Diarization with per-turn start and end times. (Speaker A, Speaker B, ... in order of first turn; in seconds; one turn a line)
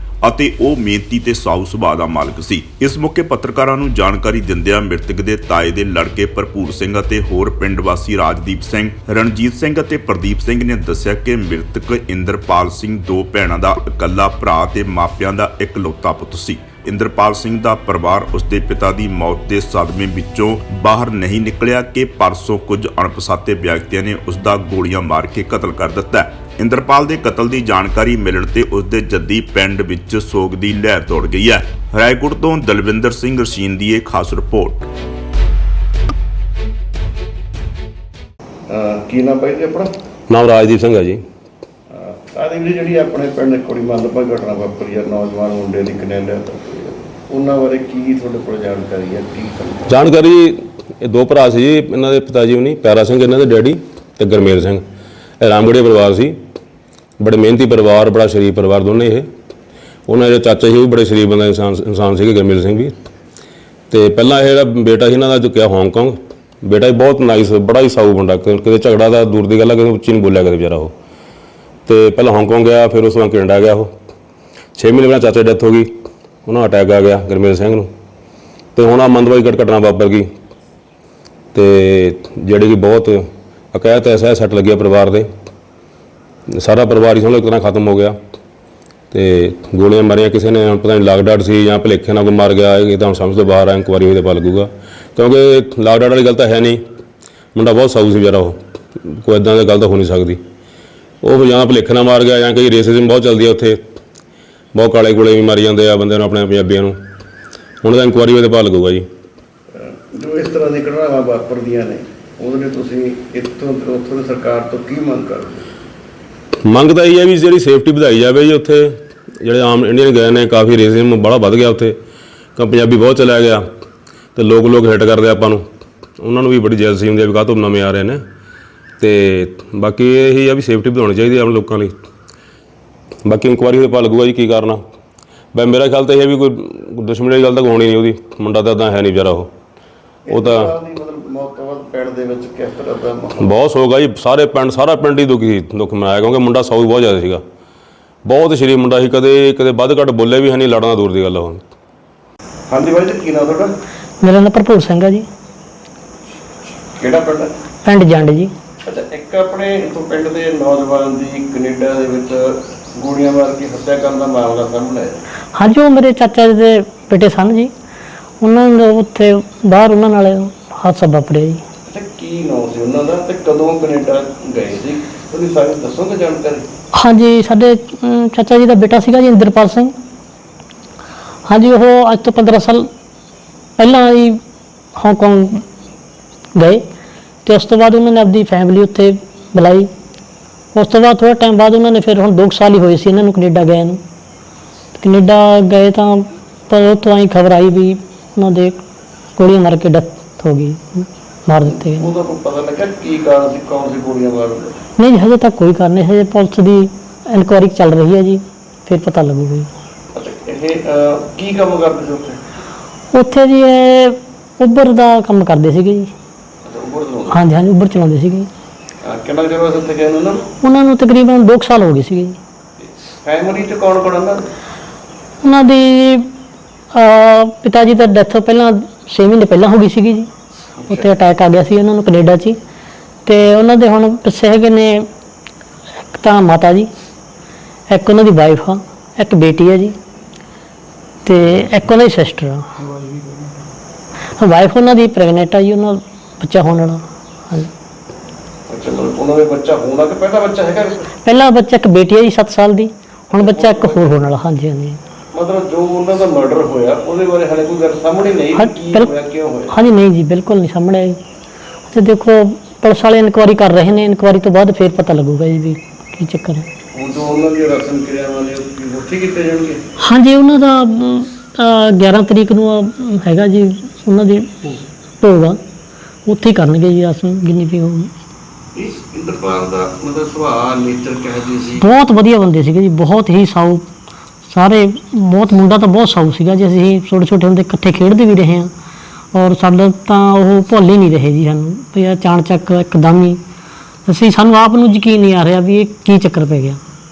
Speaker A: 0.2-34.9
Speaker B: 38.7-39.9
Speaker C: 40.3-41.2
Speaker B: 41.9-50.0
Speaker C: 49.9-54.8
Speaker C: 55.4-56.4
Speaker C: 57.2-59.3
Speaker C: 60.1-62.9
Speaker C: 63.9-70.9
Speaker C: 71.9-73.9
Speaker C: 74.8-75.9
Speaker C: 76.5-77.9
Speaker C: 78.8-80.3
Speaker C: 81.5-85.3
Speaker C: 86.5-88.2
Speaker C: 89.1-96.8
Speaker C: 97.5-100.4
Speaker C: 101.2-103.8
Speaker C: 104.7-107.0
Speaker C: 107.8-109.1
Speaker B: 109.7-115.7
Speaker C: 116.7-122.0
Speaker C: 122.6-123.7
Speaker C: 124.3-125.7
Speaker C: 126.2-128.2
Speaker C: 129.0-131.9
Speaker C: 133.2-134.8
Speaker C: 135.5-139.5
Speaker B: 140.3-143.4
Speaker C: 140.3-140.7
Speaker C: 143.4-147.4
Speaker C: 148.2-151.6
Speaker B: 152.7-153.7
Speaker D: 154.2-155.3
Speaker B: 157.0-157.5
Speaker D: 157.8-158.5
Speaker B: 158.8-165.2
Speaker D: 165.6-167.7
Speaker D: 168.4-171.6
Speaker B: 171.9-176.7
Speaker D: 176.9-179.9
Speaker D: 181.5-182.9
Speaker D: 183.8-184.4
Speaker D: 184.9-185.6
Speaker D: 186.6-186.8
Speaker D: 187.4-189.9
Speaker D: 190.7-194.0
Speaker D: 194.9-198.8
Speaker D: 199.4-202.1
Speaker B: 201.7-204.8
Speaker D: 205.0-209.7
Speaker B: 210.1-212.4
Speaker D: 213.1-216.1
Speaker B: 216.7-217.4
Speaker D: 217.3-218.5
Speaker B: 219.0-220.5
Speaker D: 220.6-222.4
Speaker B: 222.8-224.5
Speaker D: 225.4-226.3
Speaker D: 226.9-230.3
Speaker B: 230.8-231.1
Speaker D: 230.9-232.6
Speaker D: 233.2-235.1
Speaker D: 236.1-236.9
Speaker D: 237.9-240.0
Speaker D: 241.2-242.7
Speaker D: 244.3-247.7
Speaker B: 248.7-251.1
Speaker D: 251.2-255.0
Speaker B: 253.3-254.0
Speaker B: 255.3-259.8
Speaker D: 258.6-259.1
Speaker D: 259.7-261.2
Speaker D: 261.9-266.7
Speaker B: 266.9-269.8
Speaker D: 270.0-275.6
Speaker D: 276.3-278.1
Speaker B: 278.8-281.9
Speaker D: 281.8-283.9
Speaker D: 284.5-288.7
Speaker D: 289.3-293.4
Speaker D: 294.1-296.8